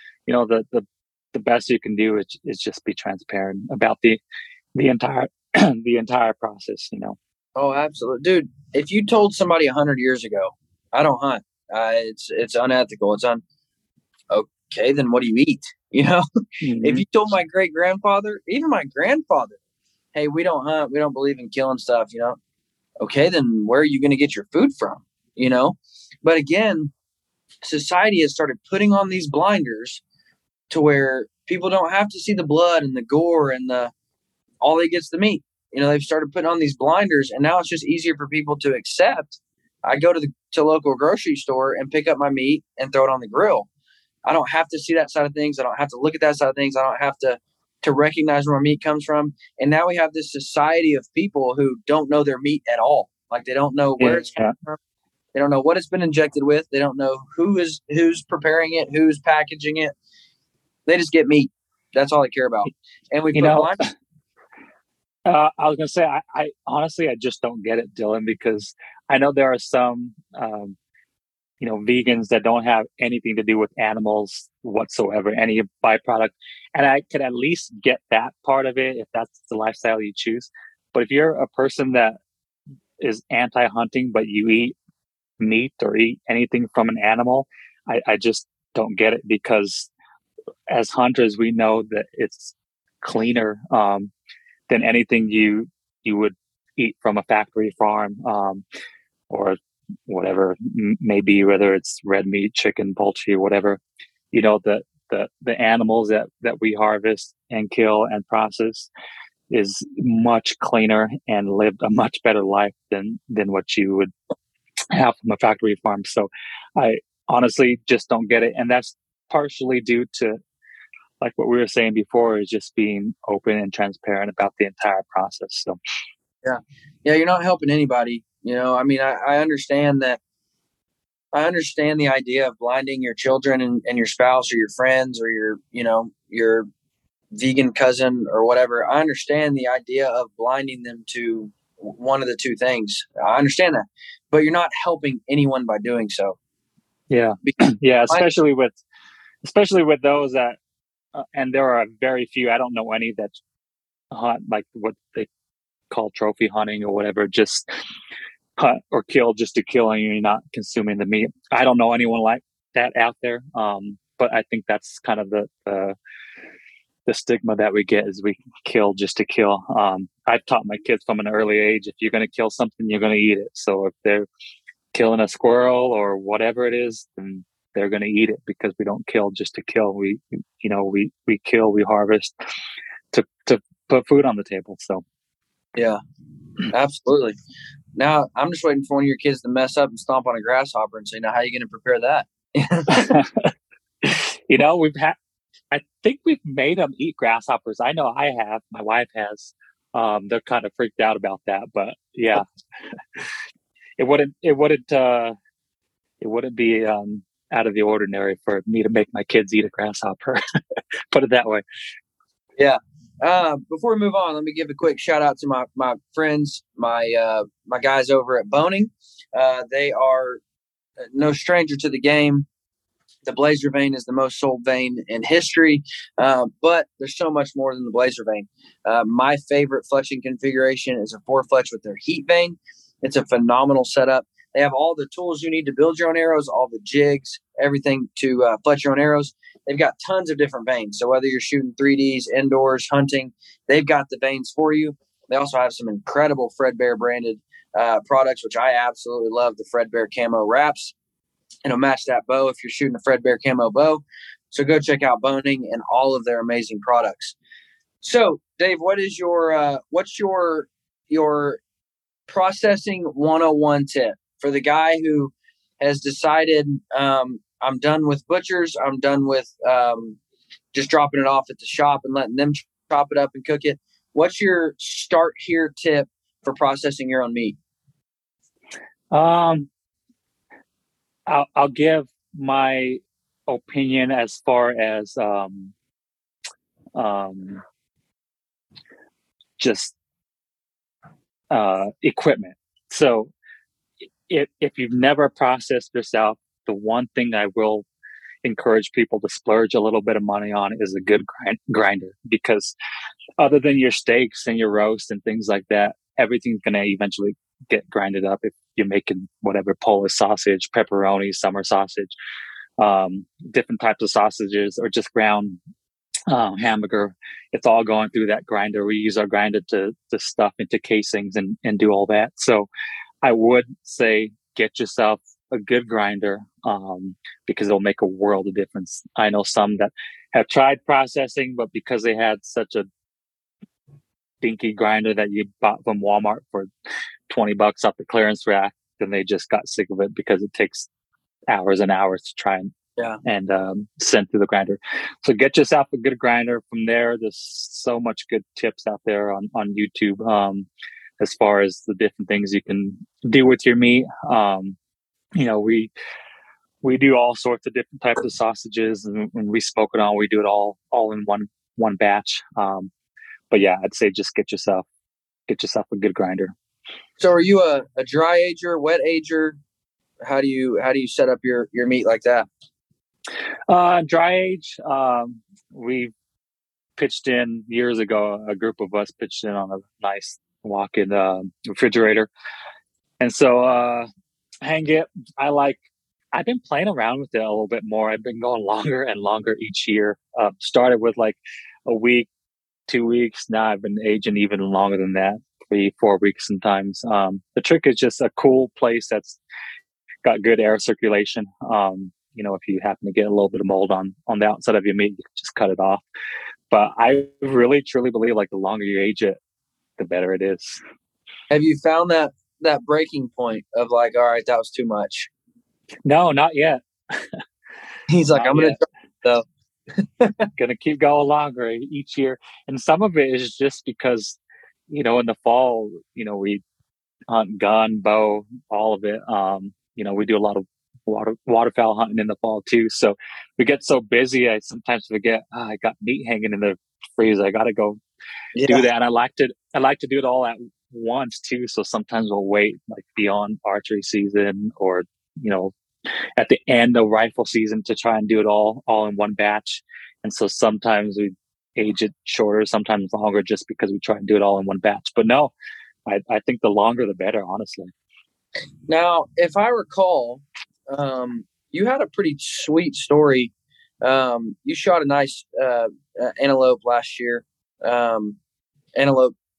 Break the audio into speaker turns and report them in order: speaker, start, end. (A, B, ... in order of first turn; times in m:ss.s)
0:00.3-0:04.2 A
0:04.7-0:07.2 A
0:07.6-0:13.4 B
0:14.3-0:16.2 B
0:16.6-0:17.0 A
0:16.8-0:19.6 B
0:20.1-0:22.4 B
0:23.0-0:26.9 B
0:27.6-0:30.0 B
0:30.7-0:33.9 B
0:34.6-0:43.7 B
0:44.2-0:54.8 B
0:54.0-0:54.5 A
0:55.3-0:59.9 B
1:00.8-1:03.8 B
1:03.3-1:03.9 A
1:05.2-1:10.8 A
1:11.6-1:22.2 A
1:23.0-1:24.8 A
1:25.4-1:29.9 A
1:30.7-1:34.1 A
1:34.7-1:38.6 A
1:39.3-1:39.6 A
1:40.1-1:43.8 A
1:44.3-1:48.9 A
1:49.5-1:54.1 A
1:54.9-2:00.4 A
2:01.2-2:05.8 A
2:06.4-2:10.2 B
2:11.3-2:16.6 B
2:17.3-2:26.4 B
2:27.1-2:28.8 A
2:27.4-2:28.2 B
2:29.4-2:30.6 A
2:31.1-2:33.3 A
2:34.1-2:35.3 A
2:35.9-2:37.7 A
2:38.6-2:46.0 A
2:47.0-2:54.3 A
2:54.9-3:02.3 A
3:03.1-3:05.0 A
3:05.7-3:06.0 B
3:06.7-3:07.4 B
3:07.9-3:13.2 B
3:12.9-3:13.5 A
3:14.0-3:15.2 A
3:15.7-3:22.4 A
3:24.0-3:25.4 A
3:26.2-3:31.6 A
3:32.6-3:40.4 B
3:41.1-3:42.4 B
3:43.2-4:10.9 B
4:11.6-4:17.3 B
4:18.0-4:21.6 B
4:22.3-4:30.2 B
4:30.7-4:37.6 B
4:39.1-4:39.7 A
4:41.3-4:45.7 A
4:47.0-4:47.6 A
4:49.6-4:49.9 A
4:51.5-4:53.3 A
4:54.3-4:57.8 A
4:58.4-5:02.7 A
5:03.4-5:12.1 A
5:12.8-5:15.6 A
5:16.3-5:22.7 A
5:23.2-5:32.9 A
5:34.4-5:36.7 A
5:37.3-5:40.9 A
5:41.5-5:42.7 A
5:43.2-5:50.7 A
5:51.2-5:54.8 A
5:55.4-5:55.9 A
5:56.8-6:02.9 A
6:03.5-6:04.8 A
6:05.5-6:06.5 A
6:07.2-6:09.6 B
6:10.2-6:12.5 B
6:13.7-6:16.1 A
6:17.0-6:22.3 A
6:23.2-6:24.1 A
6:24.6-6:25.8 A
6:26.3-6:32.3 A
6:32.9-6:39.4 A
6:40.2-6:46.0 A
6:46.7-6:49.4 A
6:50.0-6:50.8 A
6:51.5-6:55.3 B
6:56.0-6:57.4 A
6:58.1-6:59.4 B
6:58.3-6:58.8 A
7:00.0-7:00.5 B
7:00.6-7:04.4 A
7:04.9-7:06.6 A
7:07.3-7:18.0 A
7:18.6-7:18.8 B
7:18.6-7:25.7 A
7:26.4-7:35.5 A
7:36.0-7:37.9 A
7:38.9-7:43.5 B
7:44.0-7:48.4 B
7:48.9-7:49.3 B